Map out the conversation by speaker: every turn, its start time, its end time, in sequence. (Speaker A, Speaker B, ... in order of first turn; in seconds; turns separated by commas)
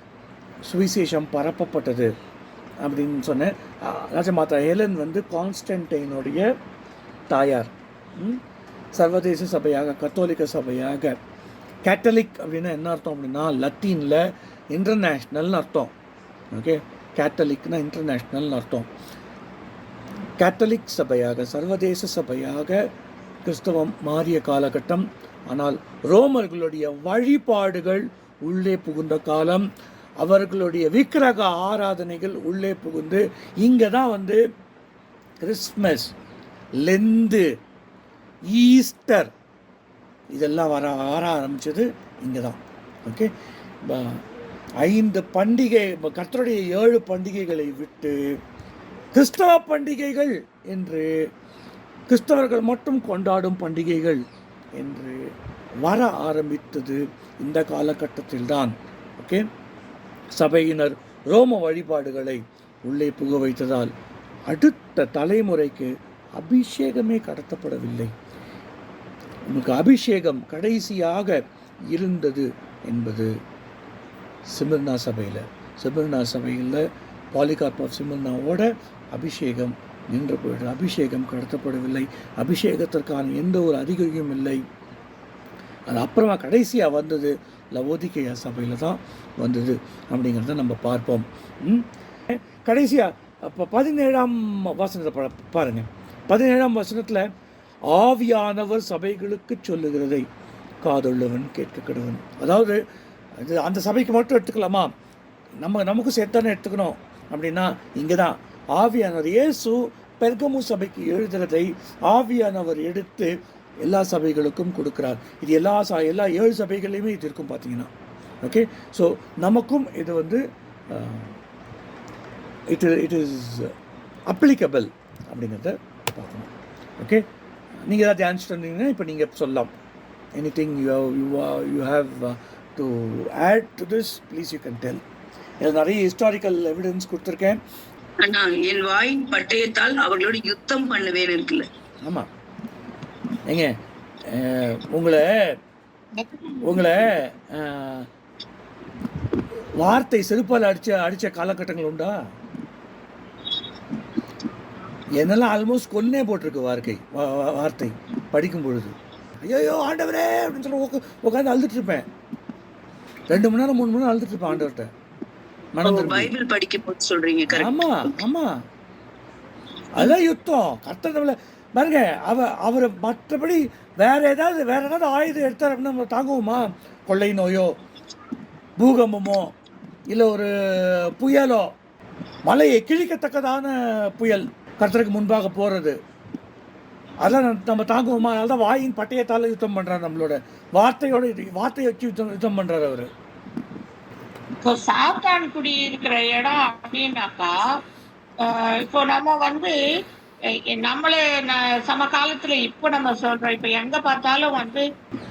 Speaker A: 0.6-2.1, Speaker A: 2.8-6.5, Speaker A: 7.3-8.4, Speaker A: 8.9-11.2, Speaker A: 11.8-15.9, Speaker A: 16.5-18.9, Speaker A: 20.4-22.8, Speaker A: 23.4-29.6, Speaker A: 30.2-34.4, Speaker A: 35.4-36.1, Speaker A: 36.8-37.5, Speaker A: 38.5-39.3, Speaker A: 40.3-43.3, Speaker A: 43.9-44.2, Speaker A: 44.8-48.4, Speaker A: 49.1-51.3, Speaker A: 52.1-54.2, Speaker A: 54.8-55.3, Speaker A: 55.8-59.4, Speaker A: 60.4-63.9, Speaker A: 64.5-68.1, Speaker A: 69.5-71.4, Speaker A: 71.9-73.3, Speaker A: 74.5-84.6, Speaker A: 85.9-97.3, Speaker A: 97.9-100.2, Speaker A: 100.8-102.8, Speaker A: 103.4-104.9, Speaker A: 105.6-113.3, Speaker A: 113.8-117.9, Speaker A: 118.4-121.4, Speaker A: 122.7-123.7, Speaker A: 124.3-127.2, Speaker A: 127.8-129.7, Speaker A: 130.4-135.0, Speaker A: 135.6-137.6, Speaker B: 138.2-141.7, Speaker A: 143.5-143.7, Speaker A: 144.3-145.6, Speaker C: 146.2-146.9, Speaker A: 146.6-148.1, Speaker A: 149.8-152.2, Speaker A: 155.2-162.1, Speaker A: 163.3-164.9, Speaker A: 165.7-166.3, Speaker B: 165.8-168.1, Speaker A: 167.5-168.6, Speaker A: 169.9-177.7, Speaker A: 178.8-179.5, Speaker A: 180.1-181.7, Speaker A: 182.5-185.9, Speaker A: 187.2-193.1, Speaker C: 194.6-197.6, Speaker C: 198.4-199.8, Speaker C: 200.7-204.9